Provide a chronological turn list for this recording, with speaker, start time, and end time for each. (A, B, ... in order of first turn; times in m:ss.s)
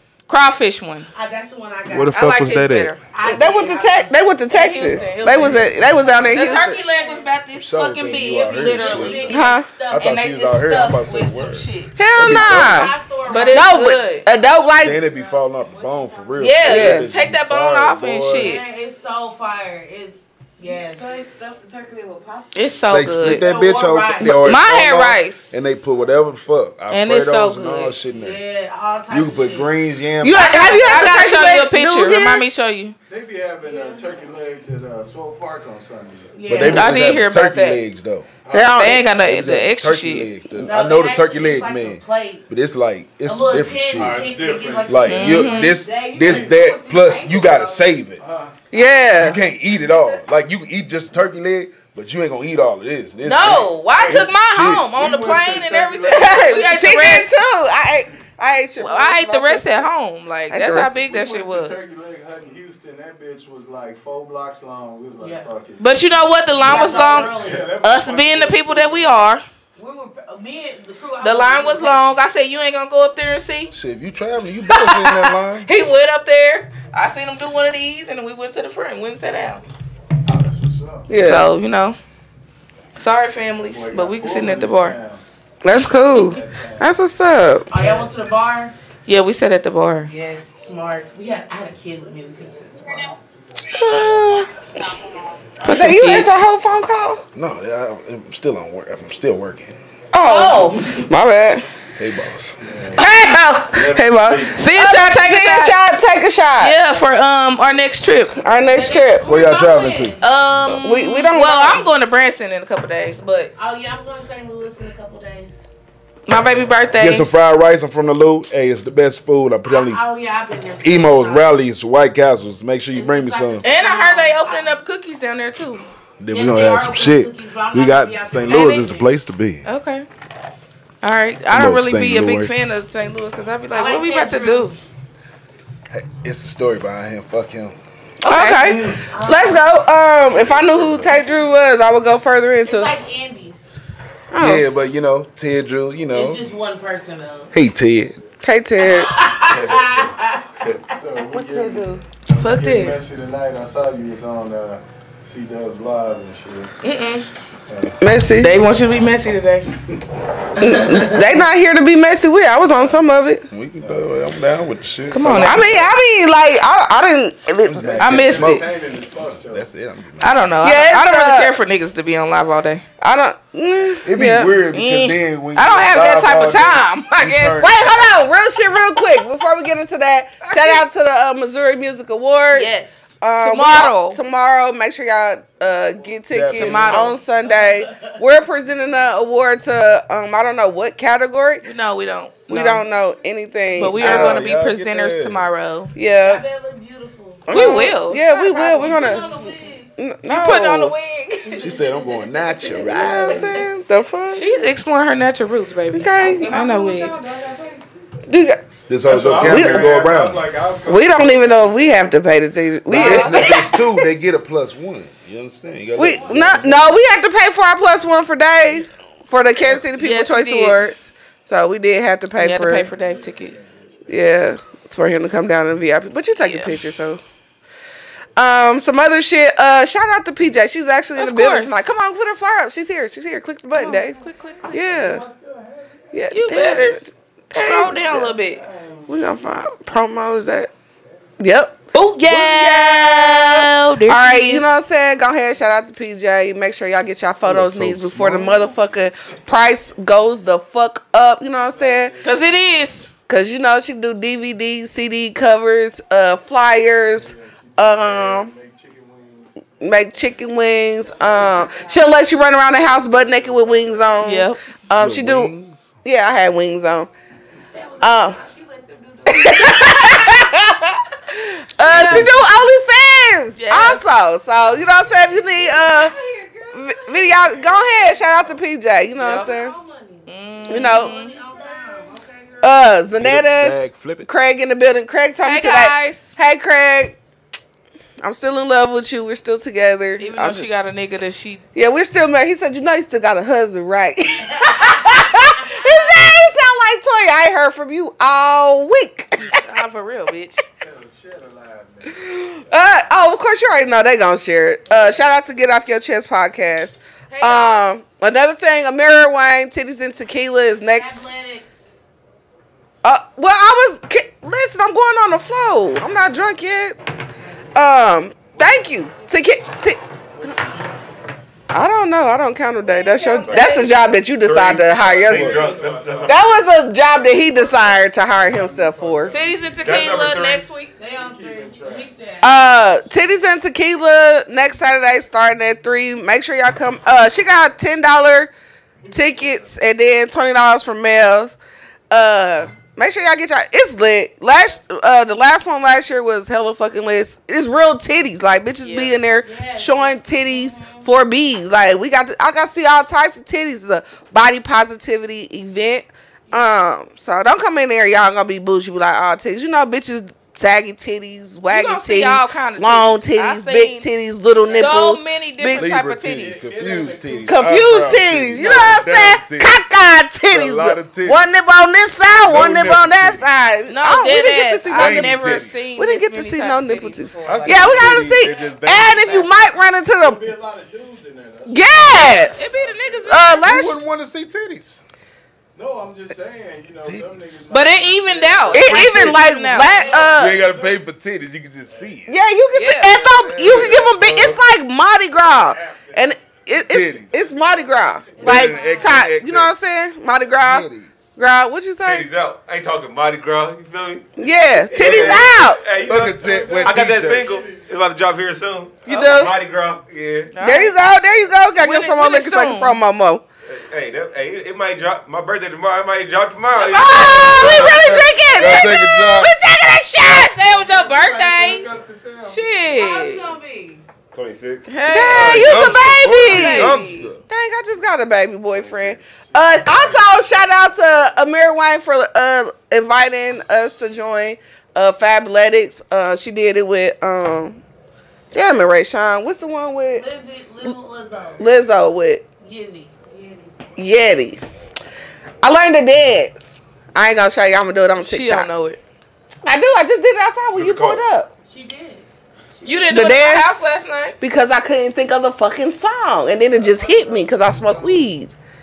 0:00.3-0:01.1 A
0:01.1-0:02.2 B
0:01.9-0:02.9 C
0:02.1-0:03.0 A
0:03.1-0:04.2 B
0:03.2-0:06.8 D
0:04.5-0:05.7 A
0:04.7-0:07.3 B
0:05.4-0:05.6 C
0:06.2-0:12.0 A
0:07.5-0:12.9 C
0:08.5-0:10.2 B
0:09.3-0:09.7 D
0:12.0-0:13.0 D
0:12.2-0:16.7 B
0:13.2-0:14.3 A
0:13.5-0:15.1 D
0:14.8-0:18.6 C
0:16.4-0:18.6 A
0:16.7-0:17.1 D
0:18.3-0:24.6 B
0:22.5-0:23.5 A
0:22.9-0:28.4 C
0:24.2-0:25.6 A
0:26.9-0:28.0 A
0:28.1-0:29.8 B
0:29.1-0:30.7 C
0:30.2-0:32.5 D
0:30.3-0:31.3 B
0:30.8-0:33.0 A
0:33.1-0:36.5 E
0:33.6-0:34.2 B
0:36.3-0:36.9 B
0:36.4-0:38.3 C
0:36.6-0:37.8 A
0:38.4-0:38.8 E
0:38.5-0:39.1 D
0:38.8-0:40.3 A
0:39.2-0:44.3 C
0:40.5-0:42.4 B
0:43.2-0:48.0 B
0:43.9-0:46.6 E
0:44.8-0:48.2 C
0:45.1-0:45.8 A
0:48.2-0:48.6 E
0:48.7-0:49.4 D
0:49.2-0:55.0 C
0:53.2-0:57.3 A
0:53.4-0:56.6 E
0:56.1-1:00.0 D
0:58.8-1:01.8 A
1:00.5-1:01.0 D
1:01.0-1:06.0 E
1:05.2-1:05.5 B
1:05.8-1:09.4 A
1:06.6-1:09.1 E
1:06.6-1:07.7 B
1:09.8-1:12.2 B
1:11.2-1:13.7 A
1:13.7-1:15.7 C
1:14.7-1:19.6 A
1:20.2-1:21.1 E
1:21.1-1:21.5 D
1:21.2-1:22.0 A
1:23.0-1:25.0 A
1:23.6-1:25.2 E
1:25.6-1:27.7 D
1:26.1-1:26.9 E
1:27.7-1:28.7 B
1:27.8-1:28.2 E
1:29.1-1:30.1 A
1:30.0-1:33.1 B
1:33.8-1:34.5 A
1:34.0-1:34.2 D
1:35.6-1:36.4 A
1:35.6-1:37.2 D
1:37.3-1:39.8 C
1:40.1-1:41.7 D
1:40.2-1:41.1 A
1:42.0-1:42.6 C
1:42.6-1:44.7 E
1:43.0-1:46.8 D
1:44.5-1:45.8 A
1:46.6-1:48.4 A
1:48.4-1:49.3 D
1:48.7-1:50.2 B
1:49.2-1:50.2 C
1:50.2-1:53.5 A
1:50.7-1:51.9 D
1:53.6-1:55.7 B
1:56.3-1:57.3 A
1:57.0-2:00.0 C
1:59.6-2:01.5 B
2:00.8-2:03.6 C
2:02.9-2:04.8 B
2:03.6-2:05.9 A
2:06.2-2:09.6 C
2:06.3-2:09.1 B
2:09.6-2:10.1 A
2:11.0-2:14.8 A
2:11.5-2:12.8 C
2:13.7-2:14.8 B
2:15.9-2:17.8 C
2:18.2-2:19.0 A
2:18.2-2:22.9 D
2:19.0-2:19.7 B
2:20.3-2:21.2 F
2:22.6-2:23.6 B
2:24.3-2:24.7 D
2:24.4-2:26.4 C
2:26.1-2:27.5 B
2:27.5-2:28.2 C
2:28.4-2:29.1 D
2:28.8-2:31.0 B
2:29.4-2:30.8 F
2:30.9-2:36.7 E
2:31.3-2:32.0 D
2:32.4-2:33.0 A
2:36.8-2:37.3 A
2:37.7-2:38.0 E
2:38.0-2:38.6 D
2:38.4-2:39.7 A
2:40.6-2:43.5 D
2:42.7-2:43.0 E
2:43.5-2:45.9 C
2:43.8-2:44.1 E
2:45.1-2:45.7 A
2:45.4-2:48.0 D
2:47.7-2:48.7 C
2:47.8-2:49.7 E
2:48.0-2:48.7 A
2:49.5-2:50.6 C
2:50.2-2:52.8 A
2:50.6-2:51.5 D
2:53.0-2:54.5 D
2:54.0-2:58.0 C
2:54.7-2:57.7 A
2:57.6-3:11.6 D
3:00.5-3:00.8 A
3:02.5-3:04.2 A
3:06.3-3:07.1 C
3:06.5-3:07.2 A
3:11.6-3:12.8 A
3:12.5-3:14.5 D
3:13.8-3:15.9 A
3:13.9-3:15.5 C
3:16.0-3:16.4 D
3:16.2-3:19.9 B
3:17.5-3:19.5 D
3:17.5-3:18.3 A
3:20.0-3:20.9 D
3:20.3-3:21.7 A
3:21.5-3:23.0 B
3:21.6-3:23.5 C
3:22.6-3:23.4 A
3:23.0-3:24.5 D
3:24.3-3:27.2 A
3:25.9-3:26.5 D
3:26.2-3:27.8 B
3:28.3-3:28.7 D
3:28.9-3:30.5 C
3:29.0-3:32.0 E
3:29.3-3:30.0 D
3:30.9-3:33.8 D
3:32.9-3:37.0 C
3:32.9-3:33.6 A
3:36.0-3:42.9 D
3:39.9-3:40.8 A
3:42.4-3:43.6 A
3:43.0-3:44.2 E
3:44.1-3:47.2 D
3:46.4-3:46.8 A
3:48.4-3:54.2 D
3:51.2-3:51.9 A
3:53.8-3:55.0 A
3:54.7-3:55.2 D
3:54.8-3:56.7 E
3:56.1-3:58.3 D
3:56.3-3:57.0 A
3:57.6-3:58.6 A
3:58.5-3:59.1 E
3:59.1-4:00.7 D
4:01.4-4:12.2 D
4:01.9-4:04.6 A
4:07.4-4:08.7 C
4:11.7-4:12.5 E
4:12.2-4:13.1 A
4:13.3-4:18.5 D
4:17.1-4:19.7 E
4:19.8-4:25.5 D
4:21.2-4:21.7 E
4:21.6-4:21.9 B
4:23.0-4:24.2 E
4:24.2-4:24.6 A
4:25.0-4:25.9 C
4:26.0-4:27.1 D
4:27.7-4:30.4 B
4:28.0-4:28.4 D
4:29.3-4:36.1 D
4:31.8-4:32.4 A
4:32.0-4:32.3 C
4:33.6-4:34.0 A
4:35.2-4:38.4 B
4:36.7-4:39.7 D
4:39.2-4:42.9 B
4:39.2-4:39.5 A
4:40.3-4:41.4 A
4:40.7-4:41.1 D
4:42.6-4:47.2 D
4:43.2-4:44.3 C
4:45.4-4:46.4 A
4:48.2-4:50.8 D
4:50.2-4:51.6 A
4:51.8-4:59.6 D
4:54.5-4:56.2 B
4:59.5-5:00.6 A
5:00.8-5:03.0 E
5:02.1-5:11.4 D
5:04.9-5:05.2 A
5:07.3-5:07.8 A
5:10.8-5:11.8 B
5:13.0-5:17.0 D
5:17.8-5:20.0 D
5:20.4-5:21.1 E
5:21.7-5:25.7 D
5:22.8-5:23.9 B
5:23.4-5:23.7 F
5:23.5-5:23.9 A
5:24.4-5:25.7 C
5:24.5-5:26.5 F
5:24.8-5:29.9 E
5:26.3-5:29.4 D
5:29.3-5:30.9 A
5:29.8-5:30.7 F
5:31.0-5:32.8 B
5:31.0-5:32.2 E
5:32.4-5:38.5 D
5:39.1-5:39.8 E
5:39.1-5:41.6 D
5:42.1-6:05.9 D
5:48.8-5:49.2 A
5:49.4-5:51.1 B
6:01.7-6:04.1 A
6:04.6-6:04.9 E
6:04.7-6:06.6 A
6:05.8-6:09.8 C
6:06.3-6:08.0 E
6:07.5-6:20.5 D
6:08.6-6:09.0 A
6:10.5-6:11.5 C
6:12.4-6:13.5 C
6:13.9-6:18.2 A
6:14.9-6:16.0 C
6:17.5-6:19.5 C
6:17.6-6:18.8 E
6:20.2-6:23.6 E
6:21.7-6:24.0 D
6:21.9-6:22.5 C
6:22.6-6:23.7 A
6:23.6-6:25.0 C
6:25.8-6:31.1 E
6:27.0-6:27.6 C
6:27.7-6:30.2 A
6:28.7-6:30.6 D
6:30.3-6:32.3 C
6:31.9-6:32.3 E
6:32.3-6:42.3 D
6:32.7-6:33.3 A
6:33.2-6:34.1 F
6:33.6-6:34.6 C
6:35.4-6:39.2 E
6:36.9-6:37.4 C
6:38.4-6:39.1 B
6:38.4-6:39.8 C
6:40.4-6:41.2 C
6:42.0-6:44.3 F
6:44.4-6:45.8 D
6:44.9-6:50.5 F
6:46.0-6:47.5 C
6:46.4-6:47.8 E
6:49.1-6:49.5 D
6:49.1-6:49.5 A
6:50.5-6:51.0 A
6:50.6-6:53.4 D
6:51.8-6:53.0 A
6:53.7-6:58.2 F
6:56.8-6:57.9 A
6:56.8-7:00.5 D
6:57.7-6:59.5 C
7:00.1-7:01.9 A
7:00.6-7:02.8 E
7:02.5-7:03.6 A
7:02.9-7:04.0 B
7:04.3-7:04.9 F
7:04.9-7:07.3 A
7:05.1-7:17.8 D
7:05.3-7:07.4 C
7:08.7-7:10.7 E
7:18.5-7:20.2 D
7:20.1-7:21.7 B
7:21.6-7:22.4 D
7:22.6-7:23.9 B
7:24.0-7:24.6 D
7:25.6-7:28.7 D
7:28.2-7:29.0 A
7:29.6-7:31.5 D
7:30.7-7:31.2 F
7:31.7-7:32.3 B
7:32.8-7:33.2 B
7:32.8-7:34.4 A
7:33.1-7:33.8 D
7:34.4-7:38.5 D
7:36.4-7:38.3 E